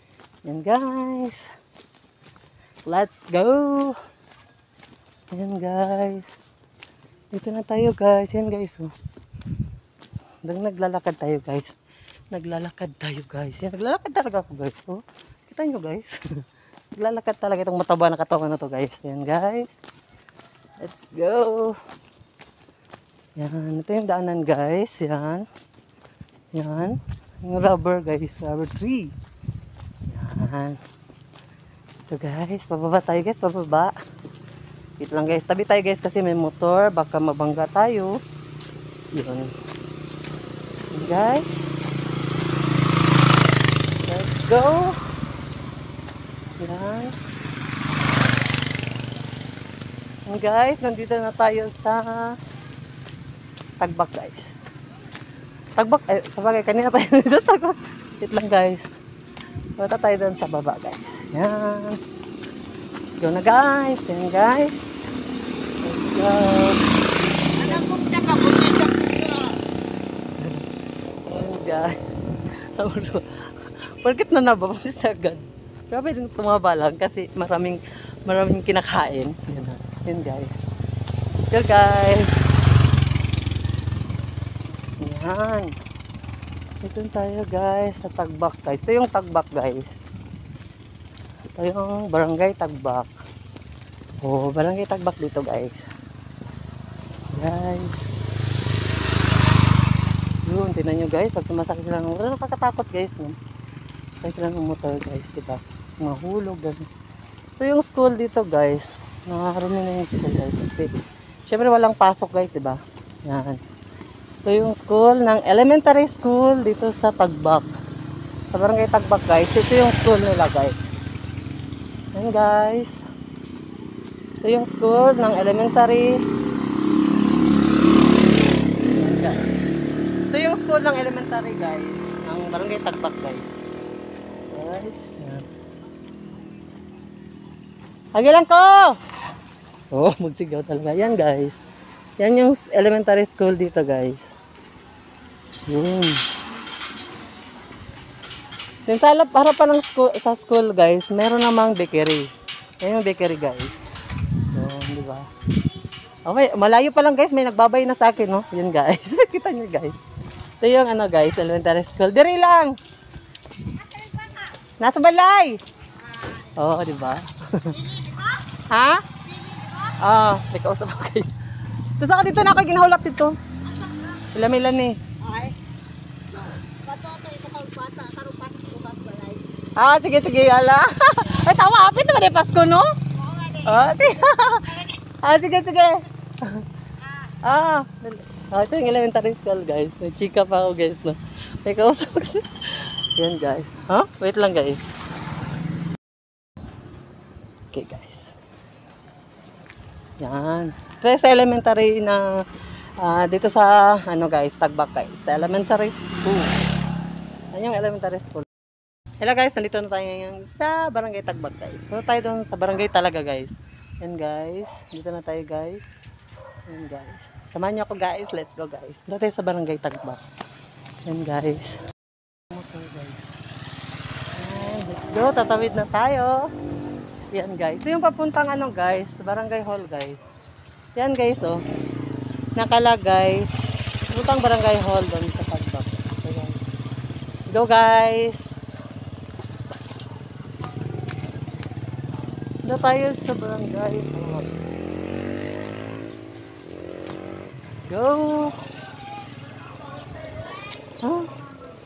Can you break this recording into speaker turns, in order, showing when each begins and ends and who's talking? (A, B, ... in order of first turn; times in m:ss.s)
0:00.4-0:01.4 A
0:02.8-0:04.0 A
0:05.3-0:06.3 A
0:07.3-0:08.9 A
0:10.4-0:11.7 A
0:12.3-0:16.4 A
0:17.0-0:19.7 A
0:20.8-0:21.8 A
0:23.4-0:25.4 A
0:26.5-0:29.1 A
0:30.1-0:30.8 A
0:32.1-0:33.9 A
0:35.0-0:38.2 A
0:39.1-0:39.5 A
0:40.9-0:41.7 A
0:44.0-0:45.0 A
0:46.6-0:47.1 A
0:50.3-0:52.3 A
0:53.8-0:54.6 A
0:55.8-0:58.9 A
0:59.8-1:02.0 A
1:03.1-1:04.8 A
1:05.8-1:06.8 A
1:07.5-1:07.9 A
1:07.6-1:09.6 B
1:10.4-1:10.6 A
1:11.2-1:12.0 A
1:12.8-1:20.5 A
1:21.5-1:22.3 A
1:25.0-1:25.7 A
1:26.8-1:30.0 A
1:31.5-1:33.1 A
1:34.2-1:35.8 A
1:37.3-1:38.1 A
1:40.4-1:43.4 A
1:44.2-1:46.9 A
1:47.6-1:50.9 A
1:51.5-1:53.6 A
1:54.4-1:57.7 A
1:58.5-2:01.0 A
2:02.1-2:03.0 A
2:04.4-2:06.2 A
2:08.8-2:09.5 A
2:10.3-2:13.6 A
2:14.5-2:15.4 A
2:18.1-2:19.0 A
2:19.9-2:21.6 A
2:22.2-2:24.4 A
2:25.7-2:26.2 A
2:28.9-2:32.3 A
2:32.8-2:33.9 A
2:34.5-2:35.3 A
2:36.2-2:40.0 A
2:40.6-2:42.8 A
2:43.7-2:44.5 B
2:44.8-2:45.6 A
2:46.4-2:47.8 A
2:47.7-2:48.4 B
2:48.7-2:49.1 A
2:49.2-2:50.0 B
2:50.0-2:51.4 A
2:52.0-2:53.4 A
2:53.7-2:54.0 B
2:54.3-2:55.0 A
2:55.2-2:55.5 B
2:56.4-2:59.6 B
2:59.8-3:02.9 A
3:03.2-3:03.8 B
3:03.6-3:06.6 A
3:07.4-3:14.9 A
3:17.7-3:18.3 A
3:20.2-3:22.3 A
3:23.0-3:26.6 A
3:27.5-3:28.5 A
3:29.2-3:35.9 A
3:36.7-3:40.2 A
3:41.0-3:41.8 A
3:42.5-3:43.3 A
3:44.3-3:46.5 A
3:47.3-3:50.2 A
3:51.0-3:51.6 A
3:52.6-3:53.4 A
3:54.1-3:56.6 A
3:57.4-3:58.6 A
4:02.6-4:04.6 A
4:07.8-4:08.6 A
4:11.0-4:11.3 A